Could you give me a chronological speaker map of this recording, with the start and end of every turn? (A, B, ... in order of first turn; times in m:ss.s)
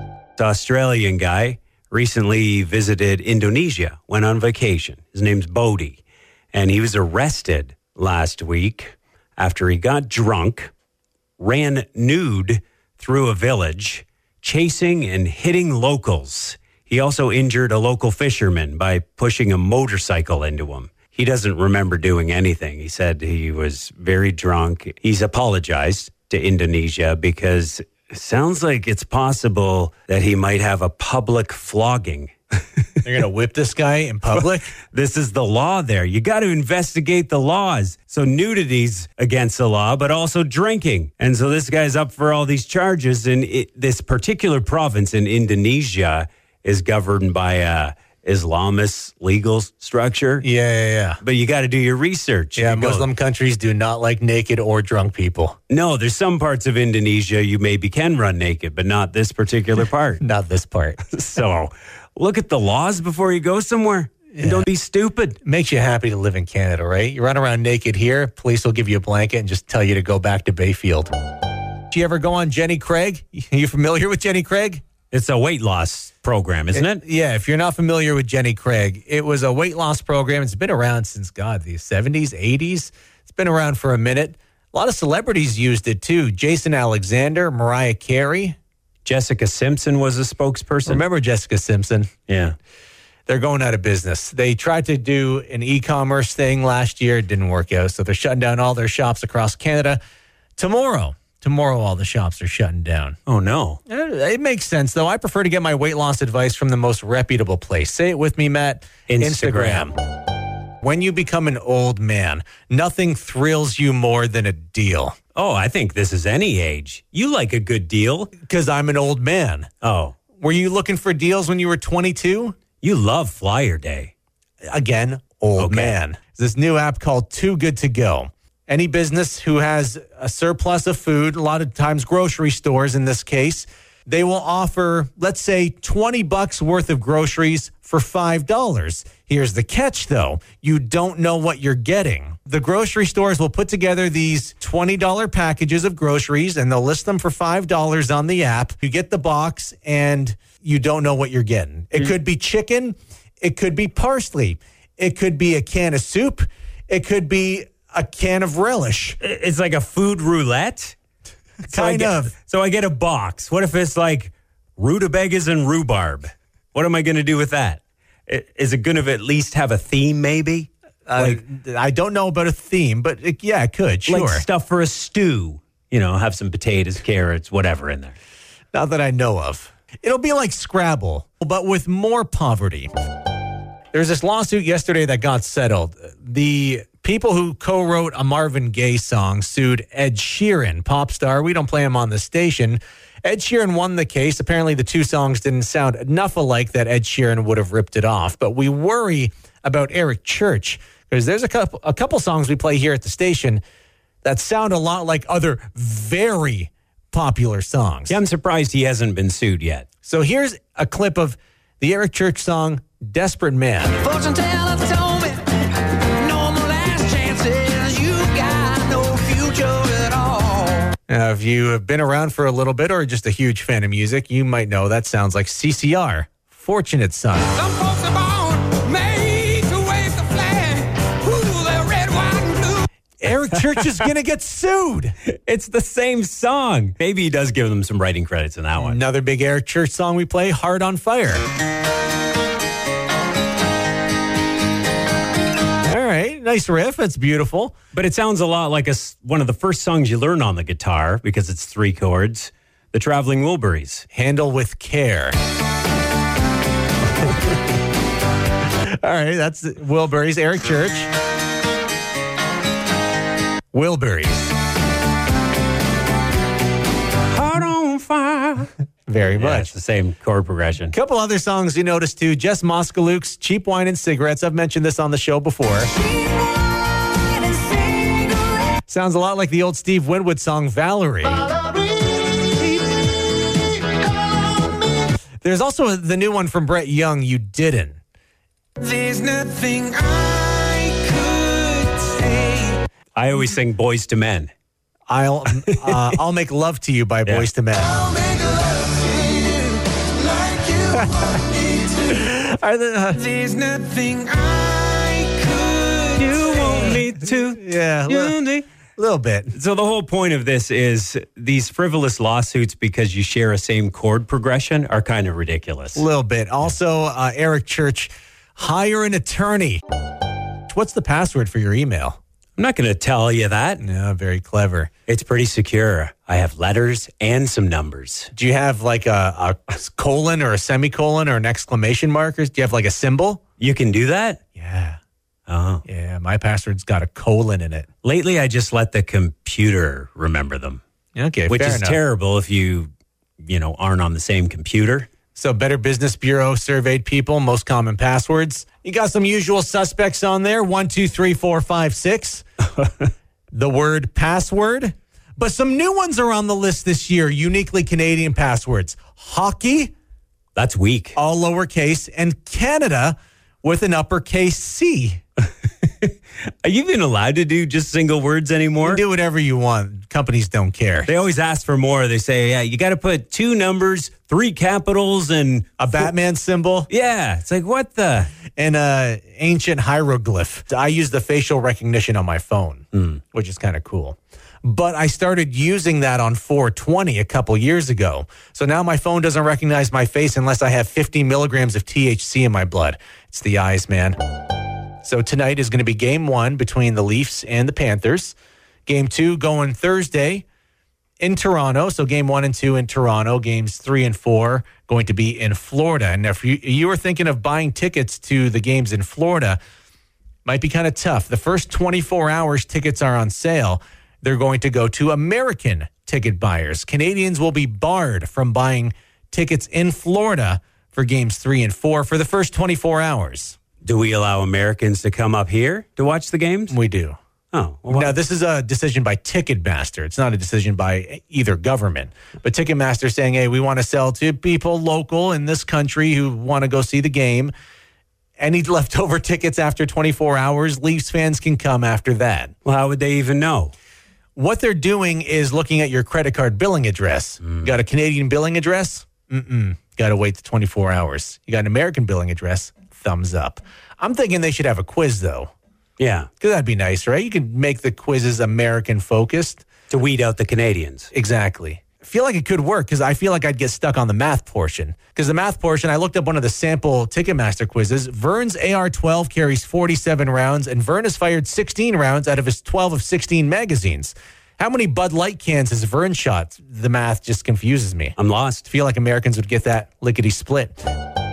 0:00.4-0:06.0 A
0:06.5-0:10.7 A
0:11.4-0:32.3 A
0:33.0-0:34.7 B
0:34.8-0:50.4 A
0:50.4-0:51.2 B
0:51.2-0:53.1 A
0:52.6-0:55.6 B
0:55.7-1:00.2 A
1:00.2-1:01.0 B
1:01.0-1:05.4 A
1:04.4-1:04.7 B
1:05.4-1:11.1 B
1:11.9-1:14.8 B
1:15.1-1:17.0 A
1:16.7-1:28.6 B
1:29.0-1:31.0 A
1:30.8-1:32.1 B
1:32.3-1:32.6 A
1:33.3-1:40.0 B
1:40.6-1:43.2 B
1:43.3-1:43.8 A
1:43.9-1:50.0 B
1:49.1-1:49.9 A
1:50.8-1:55.2 B
1:55.3-1:58.3 A
1:58.4-1:59.7 B
1:59.8-2:00.2 A
2:00.4-2:02.6 B
2:02.8-2:04.1 A
2:04.7-2:39.2 B
2:05.6-2:06.0 A
2:39.2-2:41.0 A
2:41.6-2:51.4 A
2:41.7-2:42.3 B
2:51.1-2:54.4 B
2:54.1-2:58.1 A
2:58.7-3:02.9 B
3:03.9-3:23.6 B
3:24.2-3:28.2 B
3:28.1-3:29.8 A
3:30.0-3:34.1 B
3:34.0-3:40.9 C
3:41.1-3:47.6 B
3:47.6-3:52.6 C
3:47.7-3:52.8 A
3:53.2-3:55.1 B
3:55.4-3:59.0 A
3:58.7-4:01.4 B
4:05.8-4:07.8 B
4:07.9-4:14.0 A
4:14.1-4:15.3 B
4:19.0-4:21.1 B
4:23.7-4:24.5 B
4:27.2-4:28.7 A
4:29.1-4:29.7 B
4:29.3-4:30.9 A
4:30.9-4:35.9 B
4:37.8-4:38.2 C
4:38.9-4:41.4 B
4:45.4-4:48.0 B
4:48.8-4:52.8 C
4:53.2-4:54.5 A
4:55.1-4:58.1 B
4:55.7-4:56.0 A
4:58.0-5:02.1 C
5:00.8-5:01.4 B
5:02.0-5:03.3 B
5:03.2-5:06.3 C
5:06.2-5:08.6 A
5:07.0-5:08.3 B
5:09.0-5:09.5 B
5:09.5-5:16.0 A
5:15.9-5:19.8 B
5:20.7-5:22.2 B
5:22.6-5:23.8 A
5:23.8-5:24.9 B
5:25.1-5:28.3 A
5:28.3-5:33.4 B
5:33.6-5:34.4 A
5:34.6-5:35.0 B
5:35.5-5:35.8 A
5:35.8-5:37.8 B
5:38.0-5:40.8 A
5:41.2-5:42.0 B
5:41.5-5:42.9 A
5:43.4-5:45.1 A
5:45.3-5:52.4 B
5:53.5-5:59.9 B
6:00.6-6:01.2 A
6:01.2-6:05.2 B
6:06.6-6:09.0 A
6:08.8-6:11.1 B
6:11.0-6:16.1 A
6:15.8-6:16.9 B
6:16.9-6:18.3 A
6:18.5-6:34.2 B
6:35.0-6:38.3 B
6:38.8-6:40.4 B
6:41.2-6:49.6 B
6:50.4-7:03.6 B
7:03.8-7:06.8 A
7:06.7-7:07.2 B
7:07.5-7:08.2 A
7:07.9-7:17.5 B
7:18.4-7:22.5 B
7:22.6-7:23.7 A
7:24.4-7:35.5 B
7:27.4-7:27.7 A
7:36.0-7:36.3 A
7:36.4-7:39.7 B
7:39.9-7:41.1 A
7:41.1-8:00.8 B
7:58.2-7:58.7 A